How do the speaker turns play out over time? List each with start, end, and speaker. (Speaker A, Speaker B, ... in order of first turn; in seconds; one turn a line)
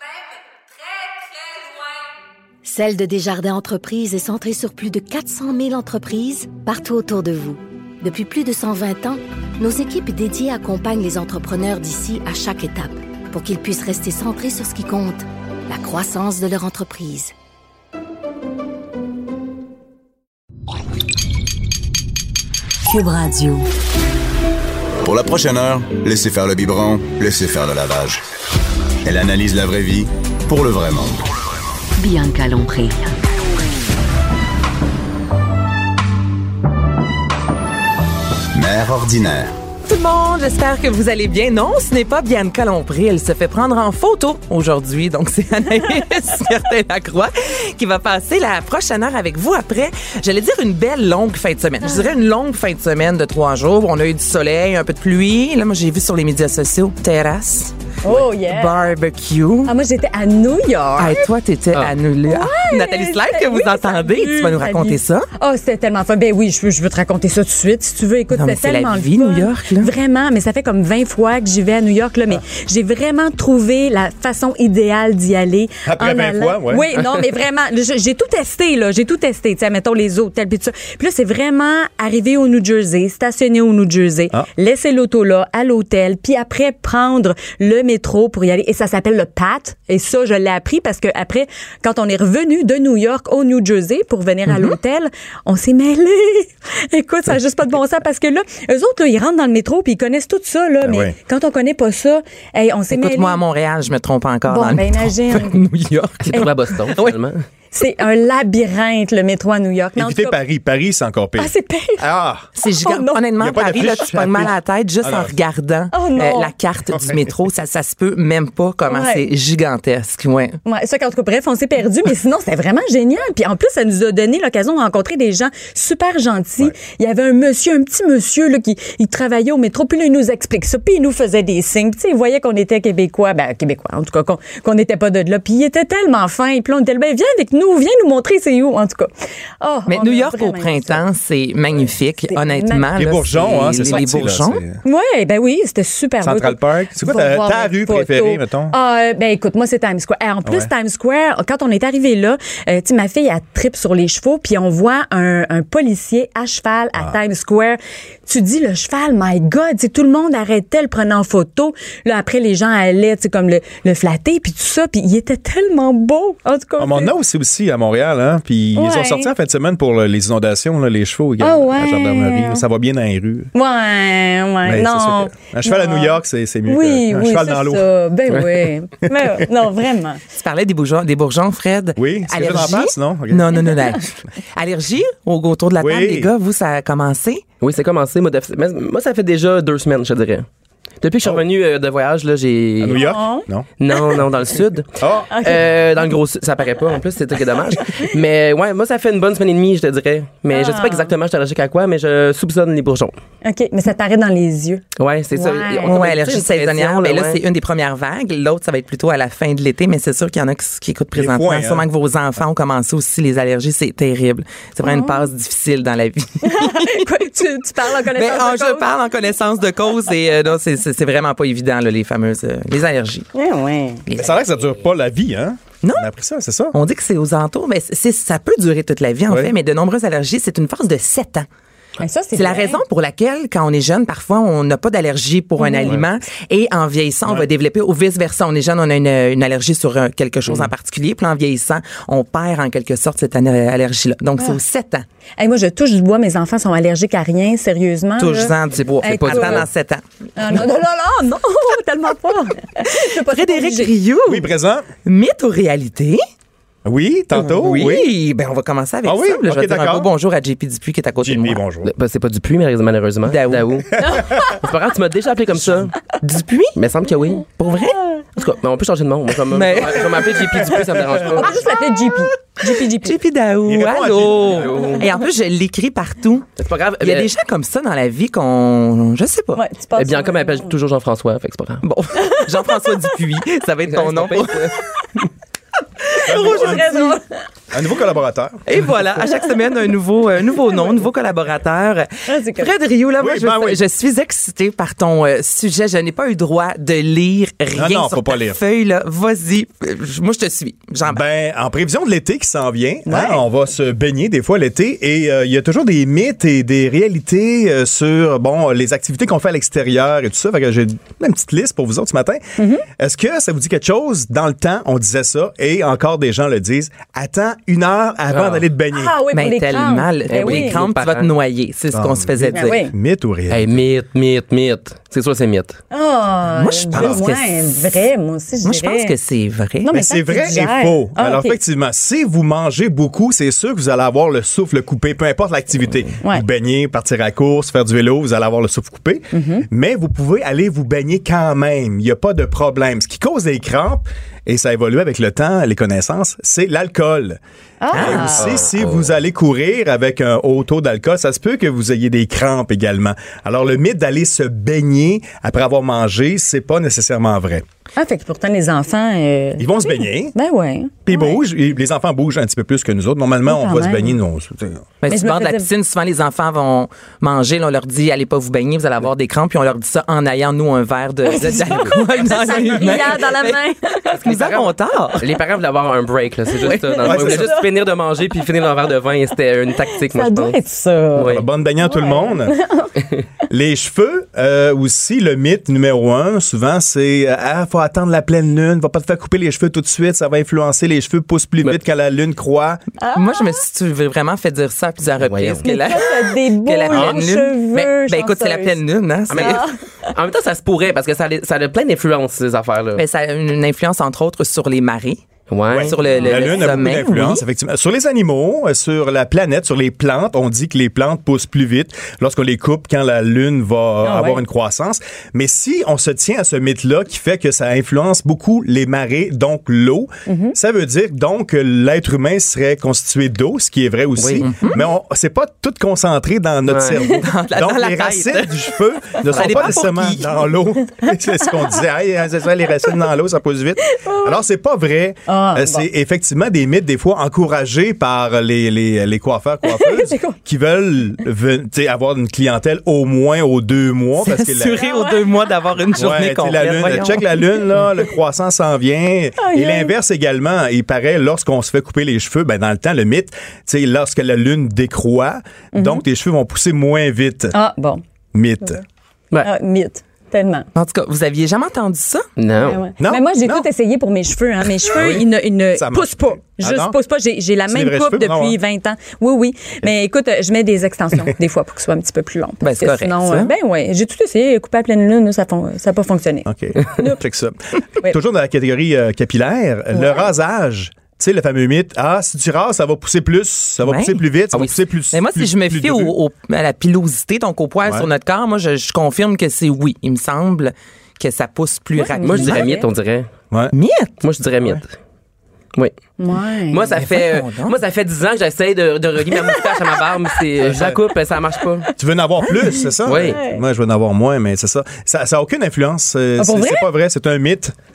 Speaker A: 2.6-17.3
Speaker B: 22.9-23.7
Speaker C: 25.0-28.2
Speaker C: 29.0-31.2
Speaker B: 32.0-33.3
Speaker C: 38.5-39.5
Speaker D: 39.8-59.7
Speaker E: 58.0-58.8
Speaker E: 59.6-61.2
Speaker D: 61.0-65.3
Speaker E: 62.3-103.4
Speaker D: 68.3-69.9
Speaker F: 75.8-76.9
Speaker F: 100.8-101.1
Speaker D: 102.9-107.2
Speaker E: 104.5-105.6
Speaker G: 106.2-107.4
Speaker E: 106.3-106.7
Speaker E: 107.7-110.4
Speaker F: 110.0-112.5
Speaker E: 111.4-112.0
Speaker D: 112.6-120.6
Speaker E: 112.6-113.2
Speaker F: 113.4-115.3
Speaker E: 115.9-116.5
Speaker E: 118.9-119.2
Speaker E: 120.7-139.1
Speaker E: 139.6-141.0
Speaker D: 139.9-144.6
Speaker E: 142.3-143.3
Speaker F: 142.9-144.8
Speaker E: 144.8-167.1
Speaker F: 146.2-148.7
Speaker F: 150.4-150.7
Speaker F: 166.8-173.5
Speaker E: 168.7-169.3
Speaker E: 171.4-172.6
Speaker E: 173.5-180.2
Speaker F: 174.6-177.9
Speaker F: 179.0-179.4
Speaker D: 180.3-187.4
Speaker F: 182.0-183.8
Speaker F: 185.8-186.3
Speaker G: 187.6-190.5
Speaker G: 191.0-193.0
Speaker F: 192.8-193.7
Speaker E: 192.9-193.5
Speaker G: 193.8-203.1
Speaker F: 195.0-195.3
Speaker E: 195.3-195.7
Speaker E: 200.5-201.1
Speaker E: 203.4-206.0
Speaker G: 205.0-207.4
Speaker D: 205.8-217.1
Speaker F: 211.2-211.8
Speaker E: 214.8-215.2
Speaker E: 216.4-218.9
Speaker D: 218.0-223.3
Speaker E: 223.3-224.0
Speaker D: 224.1-224.4
Speaker F: 224.2-226.8
Speaker D: 226.7-231.5
Speaker E: 232.0-232.8
Speaker D: 232.3-245.0
Speaker E: 235.6-236.0
Speaker E: 245.4-249.7
Speaker D: 248.2-250.0
Speaker G: 248.7-249.7
Speaker E: 250.3-253.9
Speaker D: 252.9-254.5
Speaker F: 254.2-254.9
Speaker D: 255.0-256.2
Speaker F: 256.8-258.1
Speaker D: 257.5-261.6
Speaker F: 259.0-260.1
Speaker F: 261.2-261.9
Speaker G: 261.8-265.9
Speaker D: 263.2-263.7
Speaker F: 264.0-264.5
Speaker D: 266.2-266.8
Speaker G: 266.8-267.5
Speaker D: 267.6-268.0
Speaker G: 268.4-271.6
Speaker D: 269.5-271.2
Speaker E: 271.3-273.1
Speaker D: 272.6-279.6
Speaker F: 273.6-274.7
Speaker G: 274.4-275.1
Speaker G: 276.6-277.3
Speaker E: 279.6-280.7
Speaker G: 279.9-281.8
Speaker D: 281.8-284.8
Speaker E: 282.2-282.9
Speaker G: 283.9-284.7
Speaker D: 286.1-287.2
Speaker E: 286.1-287.3
Speaker F: 286.2-286.9
Speaker F: 287.7-288.6
Speaker D: 288.7-301.2
Speaker E: 292.3-292.7
Speaker F: 293.2-293.8
Speaker F: 297.7-298.6
Speaker F: 301.1-319.2
Speaker E: 303.1-303.4
Speaker E: 312.6-312.9
Speaker G: 318.3-318.6
Speaker E: 318.9-320.8
Speaker D: 319.3-322.8
Speaker G: 320.3-321.3
Speaker F: 321.9-323.8
Speaker E: 322.5-322.9
Speaker G: 323.5-325.8
Speaker E: 325.9-329.1
Speaker D: 326.5-327.8
Speaker F: 326.9-327.2
Speaker D: 328.6-329.9
Speaker E: 329.8-331.6
Speaker F: 329.9-347.4
Speaker E: 339.3-339.6
Speaker E: 347.8-348.5
Speaker D: 347.9-348.3
Speaker F: 347.9-357.6
Speaker G: 348.4-349.0
Speaker E: 357.9-361.4
Speaker F: 359.6-360.3
Speaker F: 361.1-364.9
Speaker E: 363.4-364.1
Speaker D: 365.0-373.6
Speaker E: 365.1-365.7
Speaker E: 371.2-374.1
Speaker G: 374.1-380.6
Speaker D: 374.2-375.3
Speaker E: 376.6-377.8
Speaker F: 377.0-377.5
Speaker E: 379.9-382.9
Speaker G: 381.1-381.4
Speaker F: 381.2-382.6
Speaker F: 383.5-392.8
Speaker E: 393.0-393.6
Speaker D: 393.1-399.6
Speaker G: 395.2-395.7
Speaker E: 395.6-398.8
Speaker F: 396.9-397.2
Speaker G: 399.3-403.0
Speaker E: 399.3-399.7
Speaker D: 403.0-407.4
Speaker G: 405.5-405.9
Speaker F: 405.7-444.8
Speaker E: 406.1-406.5
Speaker E: 414.0-414.4
Speaker E: 420.2-420.5
Speaker G: 424.2-424.5
Speaker D: 424.4-424.8
Speaker G: 426.7-427.0
Speaker D: 426.9-430.4
Speaker E: 431.0-431.5
Speaker E: 433.9-434.4
Speaker E: 435.3-435.9
Speaker E: 439.6-440.4
Speaker D: 444.2-447.3
Speaker E: 444.7-445.5
Speaker F: 445.9-457.6
Speaker E: 449.4-449.9
Speaker E: 455.7-456.0
Speaker E: 457.5-458.0
Speaker F: 458.3-458.8
Speaker E: 459.4-460.7
Speaker D: 460.7-462.3
Speaker G: 462.4-462.9
Speaker E: 462.6-477.2
Speaker F: 463.0-463.6
Speaker F: 464.8-467.0
Speaker F: 467.7-468.6
Speaker D: 472.6-473.5
Speaker F: 476.4-486.1
Speaker E: 479.9-480.2
Speaker D: 483.8-484.2
Speaker D: 485.1-492.7
Speaker E: 492.0-492.9
Speaker G: 492.2-493.3
Speaker D: 493.7-494.2
Speaker G: 494.2-494.9
Speaker E: 496.2-497.0
Speaker G: 496.7-501.9
Speaker D: 497.0-497.8
Speaker E: 499.3-499.8
Speaker F: 500.6-501.0
Speaker F: 502.0-507.7
Speaker E: 502.8-503.6
Speaker G: 503.0-503.4
Speaker E: 506.4-506.9